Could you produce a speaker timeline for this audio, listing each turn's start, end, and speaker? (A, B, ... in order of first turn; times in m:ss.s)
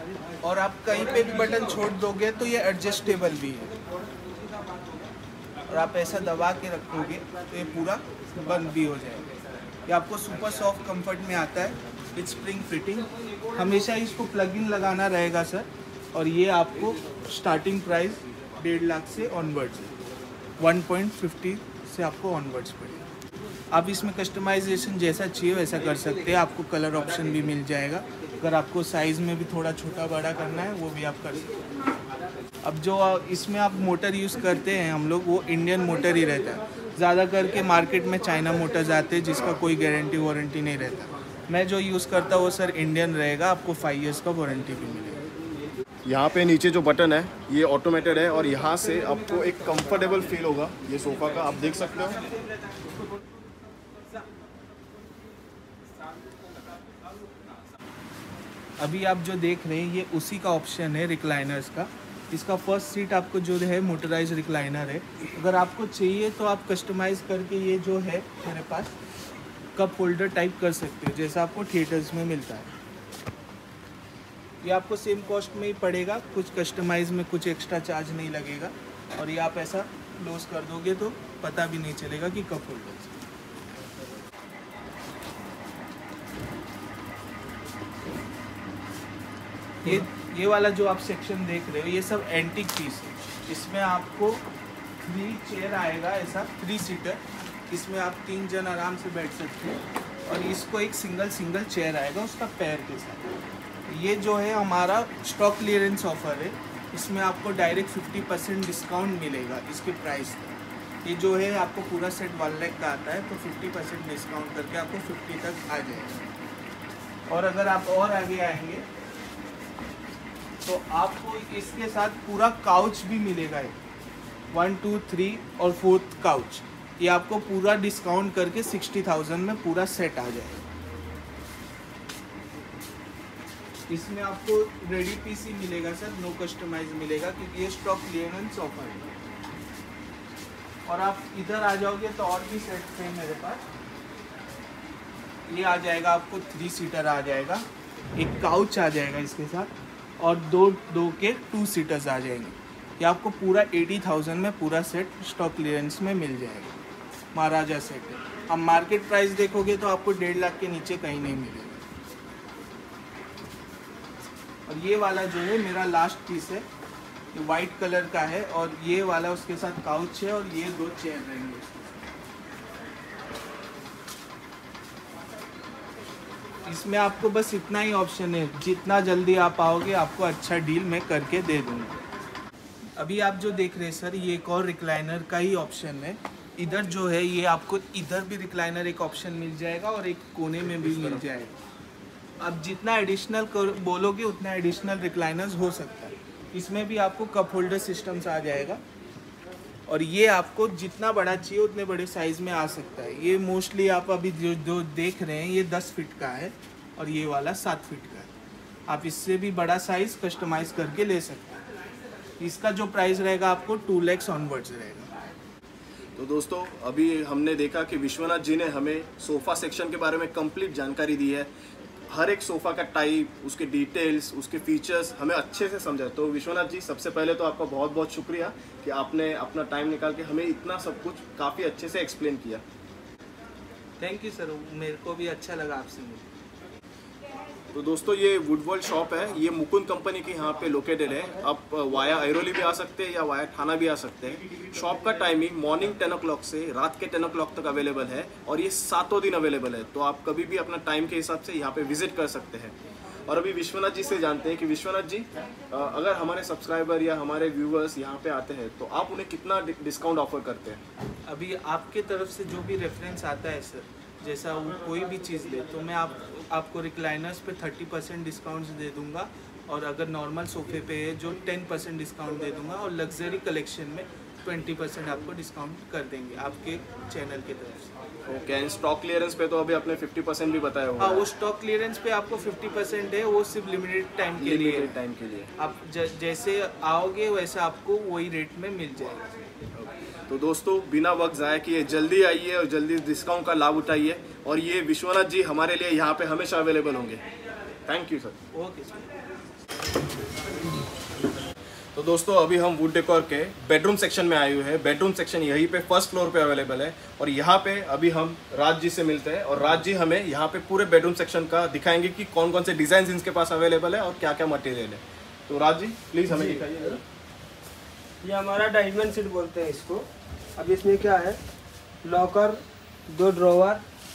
0:00.4-0:03.7 A
0:05.7-0:09.3 A
0:09.8-0:19.9 A
0:20.6-0:23.0 A
0:23.7-0:31.5 A
0:32.6-0:45.2 A
0:46.0-0:52.3 B
0:58.8-1:08.9 A
1:09.7-1:12.7 A
1:14.6-1:23.2 A
1:29.8-1:34.4 A
1:35.0-1:43.3 A
1:43.9-1:56.2 A
1:57.3-1:58.8 A
2:00.6-2:03.8 A
2:04.5-2:10.6 A
2:13.9-2:19.1 A
2:20.8-2:23.6 A
2:25.5-2:27.6 A
2:28.2-2:36.8 A
2:37.3-2:41.8 A
2:44.7-2:46.6 A
2:47.3-2:51.8 A
2:56.6-3:02.0 A
3:03.0-3:11.6 A
3:10.7-3:11.2 B
3:12.4-3:18.8 A
3:19.9-3:28.3 A
3:28.9-3:31.6 A
3:32.4-3:35.1 A
3:36.1-3:41.5 B
3:42.1-3:52.6 B
3:54.0-3:56.2 A
3:57.7-4:12.7 B
4:13.3-4:20.8 B
4:21.3-4:38.0 A
4:38.3-4:41.3 B
4:41.0-4:45.0 A
4:44.4-4:45.5 B
4:45.6-4:49.3 A
4:49.7-4:57.2 B
4:57.8-4:58.4 B
4:58.5-4:59.2 A
5:01.9-5:17.0 B
5:18.2-5:20.0 C
5:20.6-5:21.4 C
5:22.0-5:23.8 C